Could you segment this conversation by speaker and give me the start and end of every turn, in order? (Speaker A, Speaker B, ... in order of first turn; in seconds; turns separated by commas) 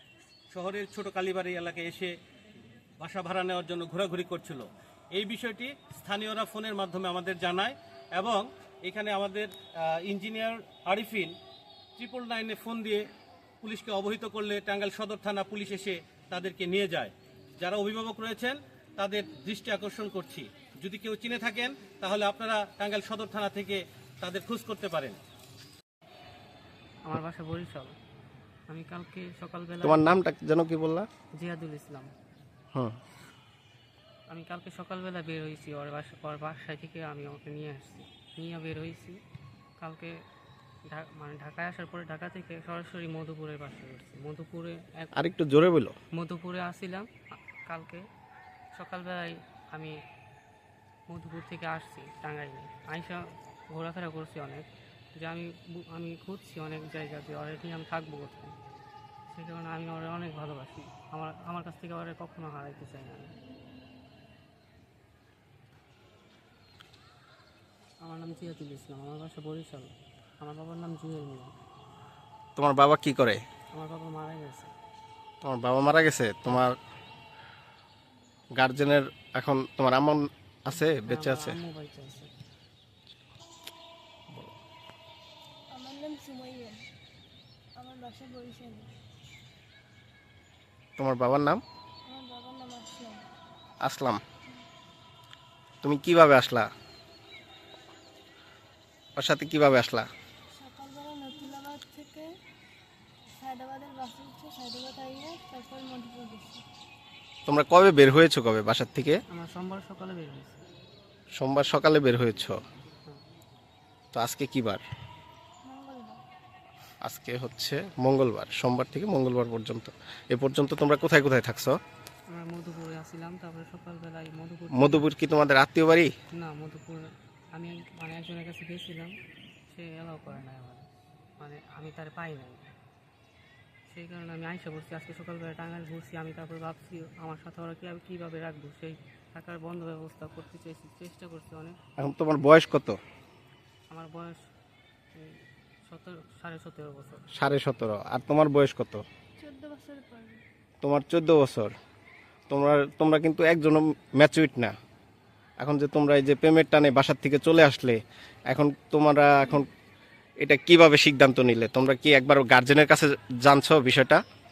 Speaker A: 0.5-2.1, Speaker A: 3.0-11.3, Speaker A: 12.0-13.1, Speaker A: 13.6-25.2, Speaker B: 27.0-27.9, Speaker B: 28.7-30.1, Speaker C: 29.8-31.1, Speaker B: 31.4-32.1, Speaker B: 34.3-39.2, Speaker B: 39.8-40.1, Speaker B: 40.9-45.1, Speaker C: 45.1-46.0, Speaker B: 46.1-47.1, Speaker B: 47.6-48.0, Speaker B: 48.7-50.0, Speaker B: 51.1-58.5, Speaker B: 59.3-63.3, Speaker B: 68.0-71.5, Speaker C: 72.6-73.4, Speaker B: 73.7-74.7, Speaker C: 75.4-76.8, Speaker C: 78.5-81.6, Speaker B: 80.8-82.3, Speaker D: 85.7-86.8, Speaker D: 87.8-88.9, Speaker C: 91.0-91.6, Speaker D: 92.0-93.2, Speaker C: 93.8-94.2, Speaker C: 95.8-96.7, Speaker C: 99.2-100.1, Speaker D: 100.5-102.3, Speaker D: 103.4-106.6, Speaker C: 107.5-109.2, Speaker B: 109.3-110.6, Speaker C: 111.3-112.6, Speaker C: 114.1-114.8, Speaker D: 115.6-116.2, Speaker C: 117.0-121.8, Speaker B: 122.3-125.1, Speaker C: 124.7-126.1, Speaker B: 126.3-129.1, Speaker B: 129.7-130.9, Speaker B: 131.4-132.7, Speaker B: 133.9-141.8, Speaker C: 142.0-143.0, Speaker B: 143.9-144.4, Speaker B: 145.1-147.2, Speaker C: 147.3-149.0, Speaker D: 149.4-150.4, Speaker C: 150.8-151.7, Speaker C: 152.5-154.7, Speaker C: 155.6-159.7, Speaker C: 160.4-164.2